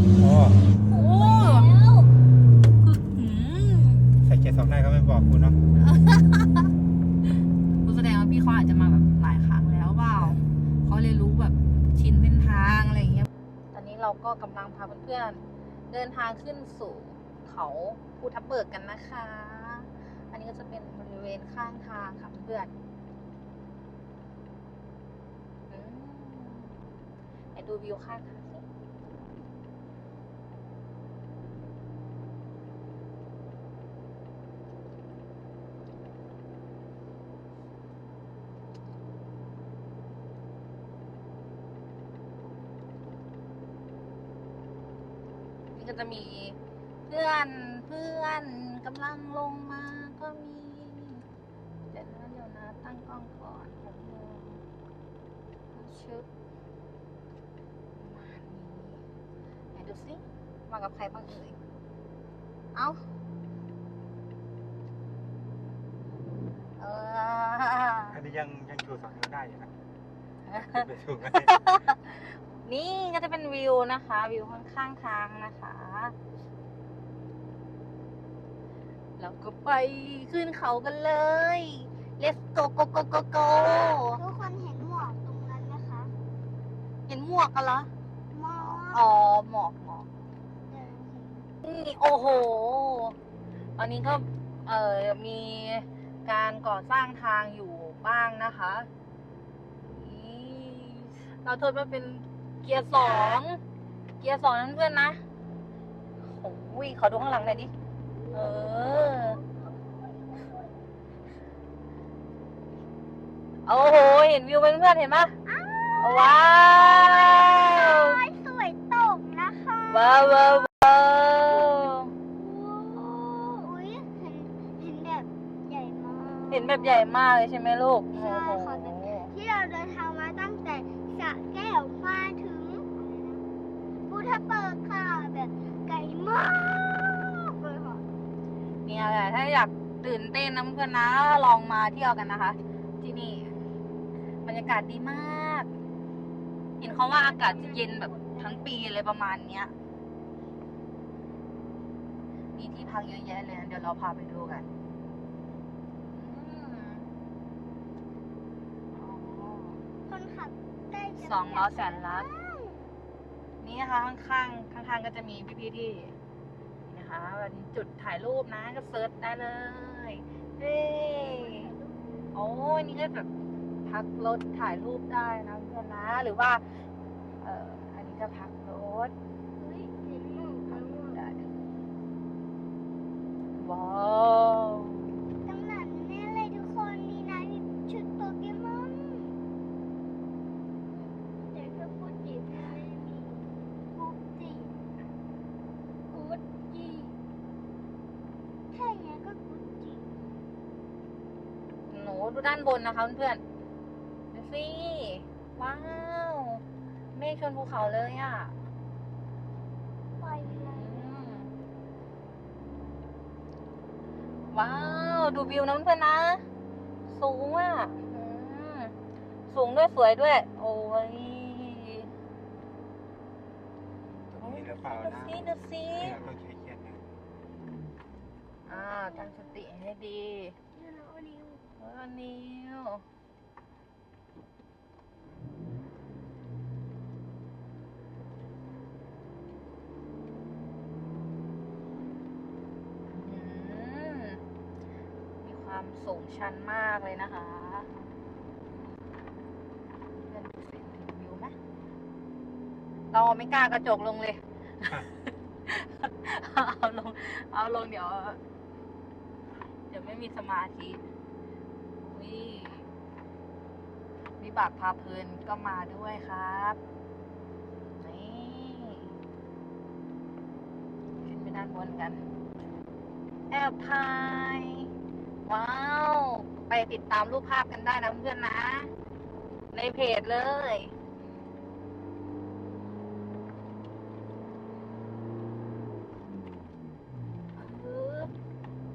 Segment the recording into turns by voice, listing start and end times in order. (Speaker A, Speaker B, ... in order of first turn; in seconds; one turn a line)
Speaker A: 0.1-0.6
Speaker B: 0.9-1.7
Speaker C: 0.9-2.1
Speaker B: 2.8-4.1
Speaker A: 4.2-5.6
Speaker B: 5.7-6.7
Speaker B: 7.8-22.7
Speaker B: 25.7-26.8
Speaker B: 27.5-28.6
Speaker B: 45.7-51.2
Speaker B: 51.9-54.6
Speaker B: 55.7-56.2
Speaker B: 58.0-59.0
Speaker B: 59.7-61.6
Speaker B: 62.7-63.0
Speaker B: 66.8-68.2
Speaker A: 68.1-69.7
Speaker B: 70.5-76.1
Speaker A: 70.7-71.5
Speaker B: 79.2-84.2
Speaker C: 83.9-86.1
Speaker B: 87.1-87.9
Speaker C: 88.3-89.0
Speaker B: 88.5-90.1
Speaker C: 90.7-91.5
Speaker B: 91.6-93.2
Speaker B: 93.8-98.9
Speaker B: 99.8-103.6
Speaker B: 104.2-105.2
Speaker B: 106.2-107.7
Speaker C: 108.2-110.9
Speaker B: 108.3-109.4
Speaker B: 113.7-115.3
Speaker C: 115.4-127.0
Speaker B: 116.0-118.2
Speaker B: 119.9-122.1
Speaker B: 126.5-129.3
Speaker C: 128.1-133.4
Speaker C: 134.1-138.0
Speaker B: 138.8-143.6
Speaker B: 144.4-145.7
Speaker B: 146.8-149.7
Speaker C: 146.8-148.8
Speaker B: 152.5-154.7
Speaker B: 156.1-157.1
Speaker B: 158.9-159.8
Speaker C: 160.1-162.9
Speaker B: 161.2-162.3
Speaker B: 163.6-166.1
Speaker B: 166.8-171.7
Speaker C: 171.1-172.3
Speaker B: 172.3-173.3
Speaker B: 173.8-176.6
Speaker B: 177.4-179.1
Speaker C: 179.6-181.2
Speaker B: 180.7-181.5
Speaker B: 183.5-185.1
Speaker C: 185.4-189.4
Speaker C: 191.0-194.8
Speaker C: 196.1-197.2
Speaker C: 198.7-200.4
Speaker B: 201.9-203.4
Speaker B: 204.3-206.6
Speaker B: 207.1-208.5
Speaker C: 210.2-211.2
Speaker B: 210.4-211.5
Speaker B: 214.5-216.4
Speaker B: 217.1-218.9
Speaker B: 219.5-222.1
Speaker A: 224.3-227.1
Speaker B: 224.4-226.2
Speaker B: 228.7-230.6
Speaker C: 228.7-229.6
Speaker C: 230.7-231.7
Speaker B: 231.7-233.0
Speaker B: 243.1-244.4
Speaker B: 245.4-247.9
Speaker B: 250.1-251.6
Speaker B: 253.1-258.4
Speaker B: 259.9-261.0
Speaker B: 262.0-262.9
Speaker B: 264.4-266.8
Speaker B: 267.9-269.2
Speaker B: 271.2-272.2
Speaker B: 273.5-274.9
Speaker B: 275.4-278.9
Speaker B: 279.7-280.9
Speaker B: 287.5-288.3